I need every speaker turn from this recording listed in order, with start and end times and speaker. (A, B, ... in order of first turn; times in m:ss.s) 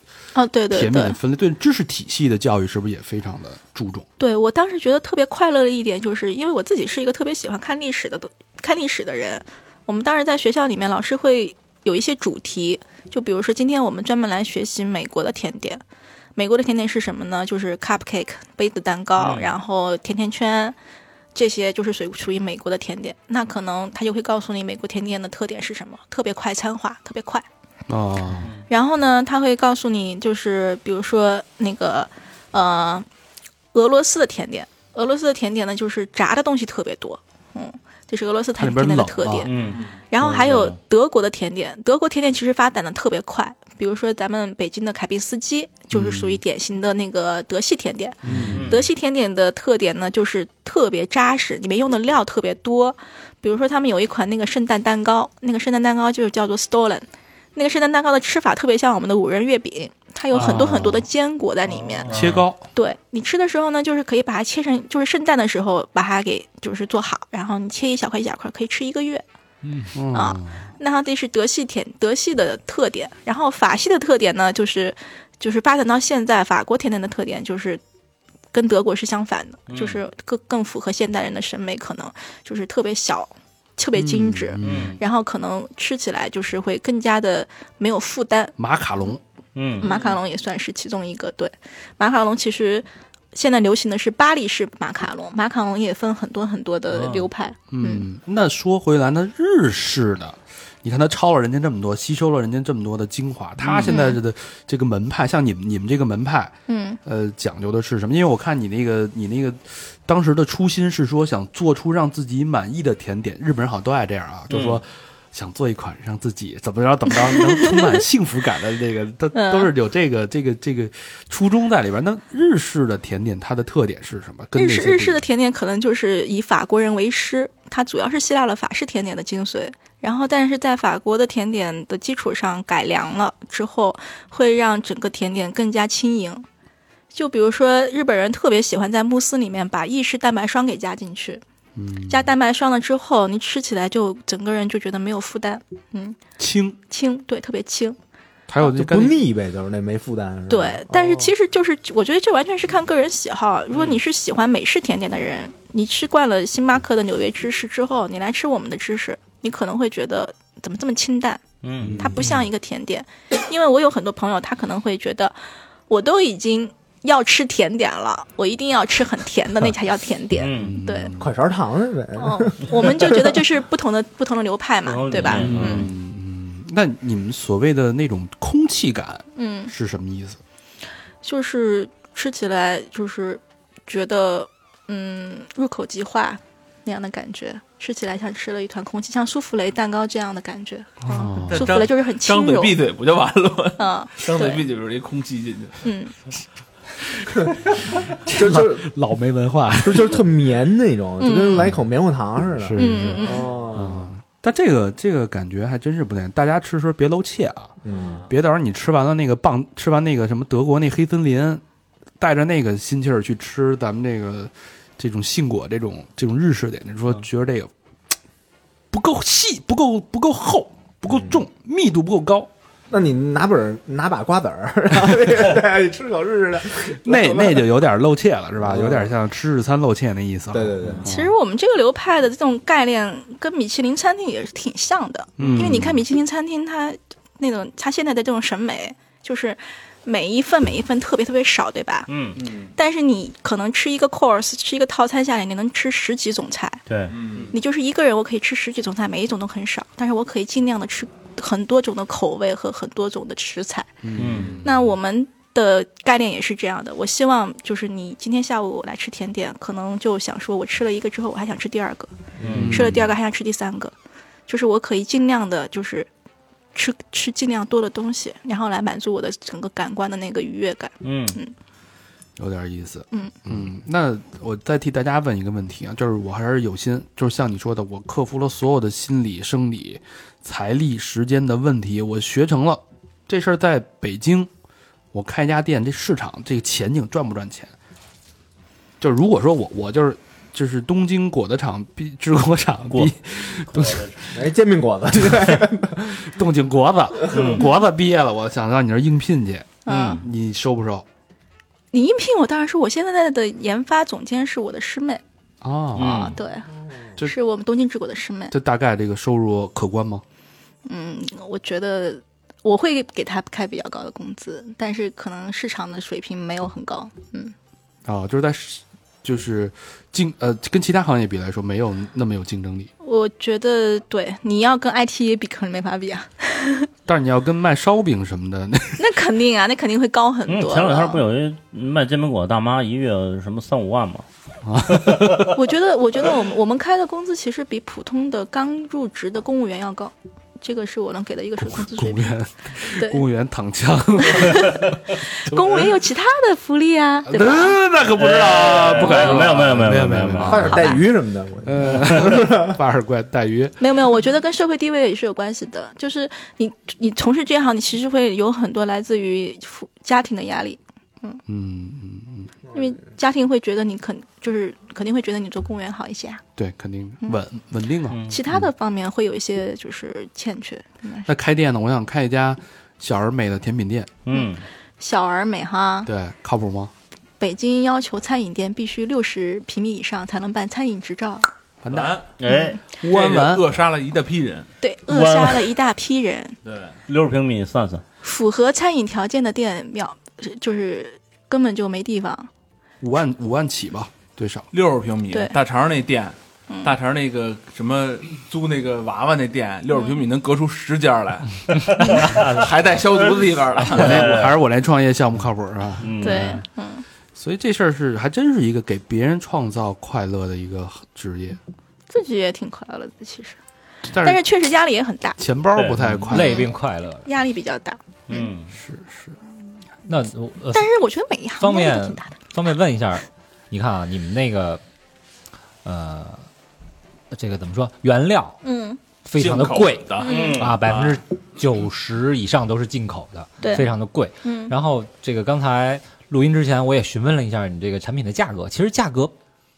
0:00.4-0:01.2 A
0:00.7-0:04.0 B
0:04.2-0:15.8 A
0:16.4-0:20.8 A
0:19.2-0:19.5 C
0:21.4-0:27.4 A
0:27.9-0:28.5 B
0:28.7-0:33.1 A
0:33.7-0:39.5 A
0:38.6-0:39.5 B
0:39.5-0:40.8 C
0:39.7-0:40.0 D
0:40.1-1:02.1 A
0:45.9-0:46.4 B
0:48.2-0:48.8 B
0:48.3-0:48.8 C
1:00.4-1:01.0 B
1:00.4-1:00.8 C
1:02.0-1:02.5 C
1:02.1-1:02.6 B
1:02.8-1:09.2 A
1:09.9-1:10.6 B
1:10.1-1:17.8 A
1:18.5-1:28.6 A
1:19.7-1:20.0 C
1:24.0-1:25.0 B
1:24.6-1:25.0 C
1:28.6-1:29.2 B
1:29.6-1:30.0 C
1:29.8-1:38.0 A
1:36.9-1:37.3 C
1:37.7-2:05.2 B
1:43.9-1:44.2 A
1:46.7-1:47.0 A
1:54.5-1:54.8 C
1:57.3-1:57.9 A
1:59.3-1:59.7 A
2:04.6-2:16.5 A
2:17.1-2:21.4 A
2:21.8-2:22.3 B
2:22.1-2:26.2 A
2:26.4-2:26.8 B
2:26.9-2:28.0 A
2:28.5-2:29.2 B
2:28.6-2:31.3 E
2:30.5-2:41.4 A
2:41.6-2:42.1 C
2:41.8-2:42.4 B
2:42.0-2:45.4 A
2:45.9-2:51.1 A
2:50.4-2:50.8 C
2:50.6-2:51.3 B
2:51.2-2:53.4 E
2:52.2-2:55.9 A
2:54.8-2:56.0 C
2:55.3-3:00.4 B
2:59.4-2:59.7 A
3:01.2-3:12.8 A
3:11.0-3:11.7 B
3:11.5-3:15.8 D
3:13.8-3:14.6 A
3:15.8-3:16.1 A
3:18.1-3:20.2 B
3:18.3-3:18.9 E
3:19.8-3:24.1 E
3:21.2-3:21.7 A
3:22.6-3:27.8 B
3:22.8-3:23.5 A
3:27.8-3:28.2 E
3:28.3-3:31.6 B
3:32.2-3:37.7 B
3:38.9-3:42.5 B
3:41.1-3:41.4 E
3:42.9-3:47.7 E
3:47.0-3:51.3 B
3:48.6-3:49.1 E
3:50.5-3:51.1 E
3:51.0-4:02.1 A
3:55.4-3:56.0 B
4:02.1-4:02.4 C
4:02.4-4:02.7 D
4:02.8-4:06.8 A
4:06.9-4:07.5 C
4:07.1-4:07.5 D
4:07.5-4:13.9 A
4:14.0-4:14.7 B
4:14.2-4:14.6 C
4:14.6-4:22.1 A
4:22.4-4:22.7 E
4:22.4-4:22.9 C
4:22.5-4:23.1 B
4:22.7-4:23.9 A
4:24.5-4:26.1 A
4:26.8-4:31.5 A
4:31.0-4:31.4 C
4:32.4-4:44.5 B
4:45.1-4:47.7 B
4:49.0-4:54.2 B
4:52.9-4:53.1 C
4:53.7-4:54.2 C
4:54.3-4:56.3 E
4:55.2-4:55.6 B
4:56.1-5:01.0 B
4:57.3-4:57.7 C
4:59.9-5:00.2 A
4:59.9-5:00.3 C
5:01.9-5:05.2 A
5:05.6-5:06.4 B
5:06.0-5:06.4 C
5:06.2-5:08.5 A
5:08.5-5:10.2 B
5:10.9-5:17.5 A
5:18.1-5:22.9 B
5:23.0-5:26.9 A
5:27.1-5:29.1 B
5:29.0-5:31.2 A
5:30.5-5:34.3 C
5:34.6-5:35.5 B
5:35.5-5:43.2 A
5:41.6-5:45.9 B
5:44.2-5:47.8 A
5:47.3-5:50.9 B
5:48.1-5:50.9 C
5:49.0-5:49.4 A
5:50.4-5:52.8 E
5:50.6-5:51.0 A
5:51.6-5:53.8 B
5:53.8-6:01.4 A
6:01.5-6:02.5 B
6:02.7-6:06.4 A
6:06.6-6:08.6 B
6:08.1-6:08.4 C
6:08.2-6:11.3 A
6:11.3-6:14.2 B
6:14.2-6:14.6 C
6:14.3-6:16.1 A
6:16.1-6:16.9 B
6:17.4-6:21.5 A
6:21.8-6:22.2 B
6:21.9-6:22.3 D
6:22.4-6:22.8 C
6:22.5-6:22.8 A
6:23.0-6:23.7 B
6:23.0-6:24.7 D
6:24.8-6:26.6 A
6:25.1-6:25.7 C
6:26.6-6:27.0 D
6:27.1-6:28.0 C
6:28.2-6:32.5 A
6:33.0-6:34.7 B
6:34.7-6:44.5 D
6:36.7-6:37.0 A
6:39.9-6:40.2 A
6:42.0-6:42.7 C
6:43.9-6:46.4 B
6:44.0-6:44.5 C
6:46.0-6:46.6 C
6:46.2-6:47.0 A
6:47.4-6:51.6 B
6:52.1-6:53.6 A
6:54.1-6:54.4 B
6:54.2-6:55.4 A
6:55.4-6:56.7 B
6:55.8-6:56.2 C
6:56.3-6:57.3 F
6:56.3-6:56.7 A
6:57.2-6:58.5 A
6:58.3-6:58.7 C
6:58.7-6:59.4 B
7:00.1-7:00.9 F
7:00.7-7:02.4 A
7:01.6-7:04.8 F
7:05.8-7:06.5 F
7:07.3-7:08.6 F
7:08.6-7:09.0 A
7:09.2-7:19.3 F
7:09.4-7:11.2 D
7:10.2-7:10.7 A
7:10.2-7:10.9 C
7:13.6-7:13.9 A
7:14.4-7:14.7 A